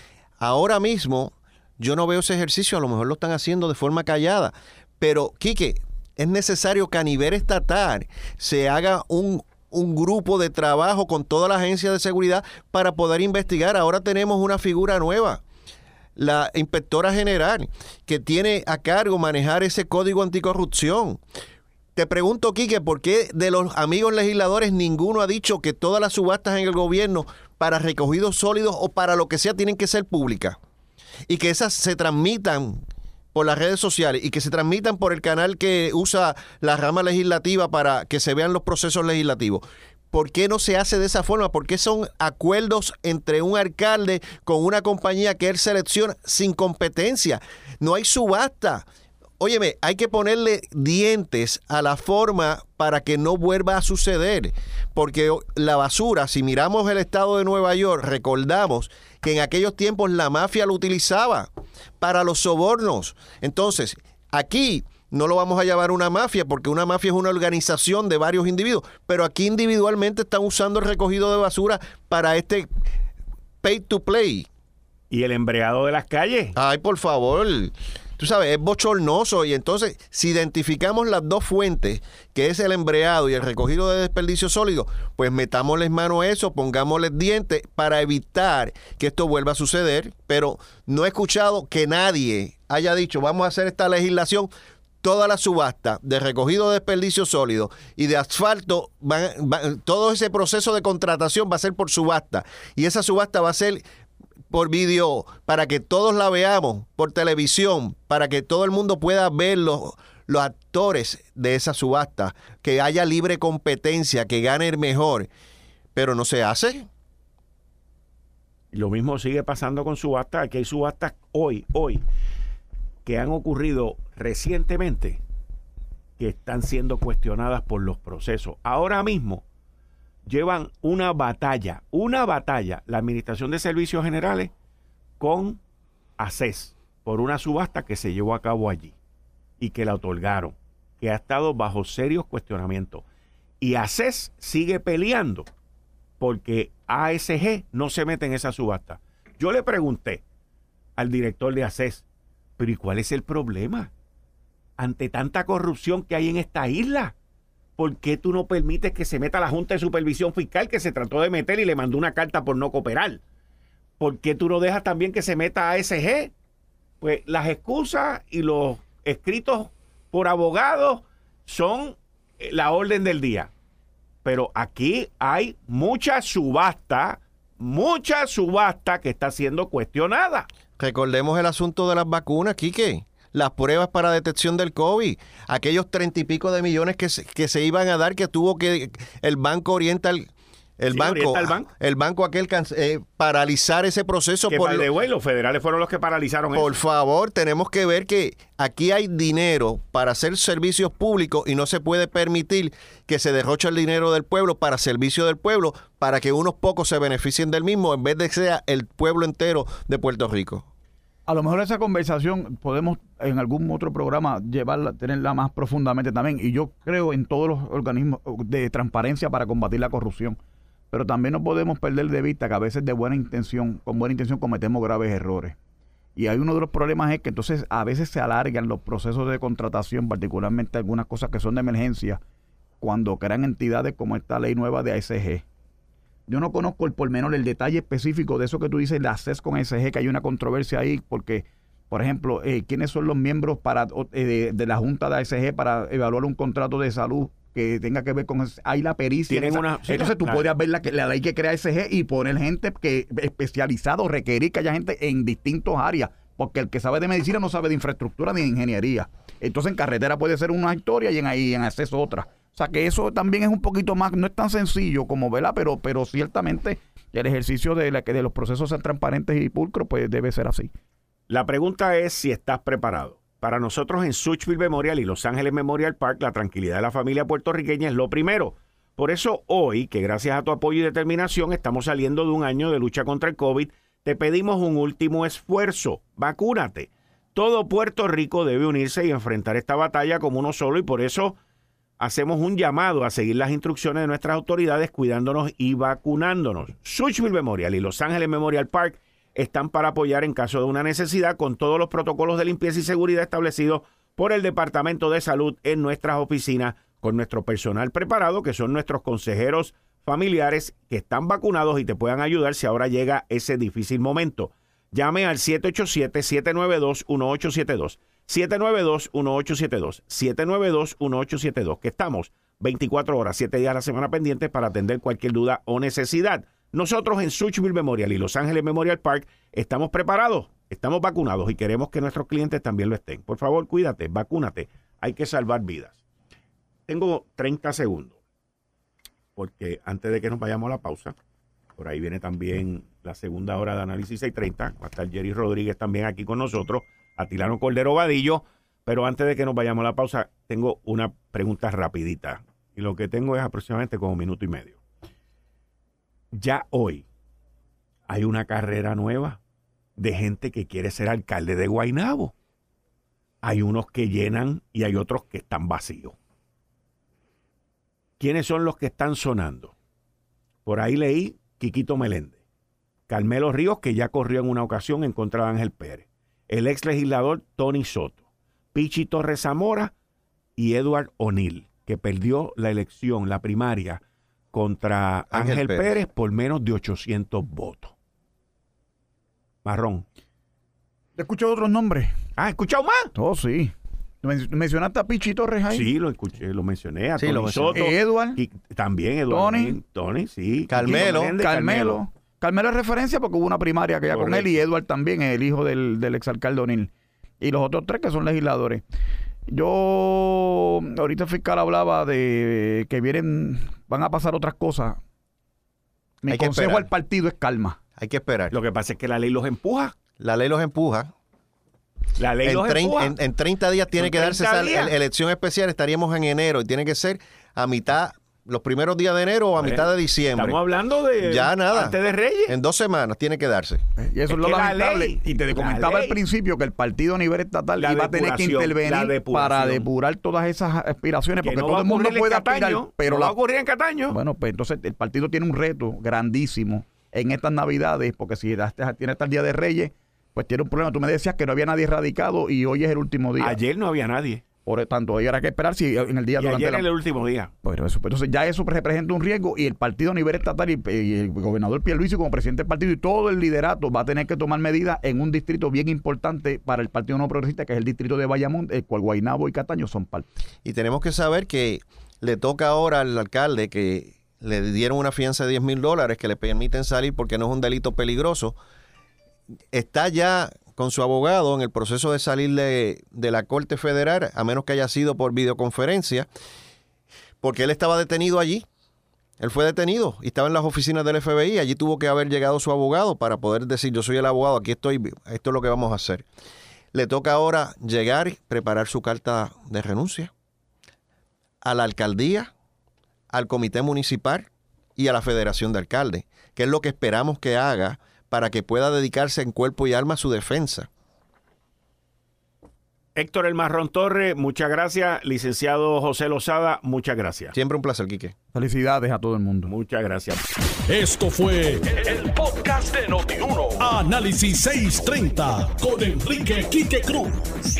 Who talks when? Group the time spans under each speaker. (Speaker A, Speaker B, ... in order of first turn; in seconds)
Speaker A: 0.4-15.4, 16.2-21.2, 21.9-30.6, 31.3-32.8, 33.3-48.8, 49.4-61.5, 62.0-72.7, 73.6-74.5, 76.5-94.5, 95.0-103.8, 104.5-115.3, 115.9-116.9, 180.8-194.9, 196.5-210.6, 385.3-385.9, 397.2-397.9, 400.7-401.3, 416.3-416.9, 418.0-418.5, 420.2-421.1, 422.4-430.6, 431.2-432.0, 432.5-433.8, 470.6-478.6, 479.7-486.3, 487.4-488.6, 489.4-496.2, 496.9-500.3, 501.6-502.5, 503.3-510.9, 517.5-518.3
Speaker B: 75.1-76.5, 118.7-122.0, 123.0-125.2, 126.2-129.4, 130.2-134.5, 135.2-135.6, 136.2-138.9, 139.6-143.0, 143.6-145.5, 146.2-150.2, 151.0-152.0, 152.6-153.9, 154.8-157.1, 157.8-163.2, 164.0-166.3, 167.0-173.5, 174.2-180.5, 190.9-191.7, 194.5-196.8, 249.3-250.5, 271.3-291.4, 292.0-336.0, 336.9-338.1, 339.4-341.1, 341.8-354.8, 356.3-357.1, 358.1-359.4, 360.0-362.3, 363.4-366.1, 368.2-369.7, 370.6-372.4, 373.1-379.9, 380.6-384.0, 384.5-387.9, 389.6-390.1, 392.4-393.1, 395.7-402.0, 404.1-404.6, 418.5-419.9, 422.2-423.1, 423.9-424.9, 429.6-432.6, 434.3-436.2, 437.8-439.9, 441.4-444.2, 453.4-454.4, 456.4-457.5, 513.1-517.5, 519.7-520.4
Speaker C: 211.3-220.4, 220.9-225.6, 226.2-232.2, 232.8-235.4, 236.3-270.7, 391.2-392.1, 393.1-395.9, 397.7-398.4, 399.3-399.8, 400.8-408.8, 409.5-415.0, 416.2-417.8, 434.0-443.3, 444.1-453.6, 454.6-456.9, 457.6-470.3, 518.5-519.7
Speaker D: 520.9-527.5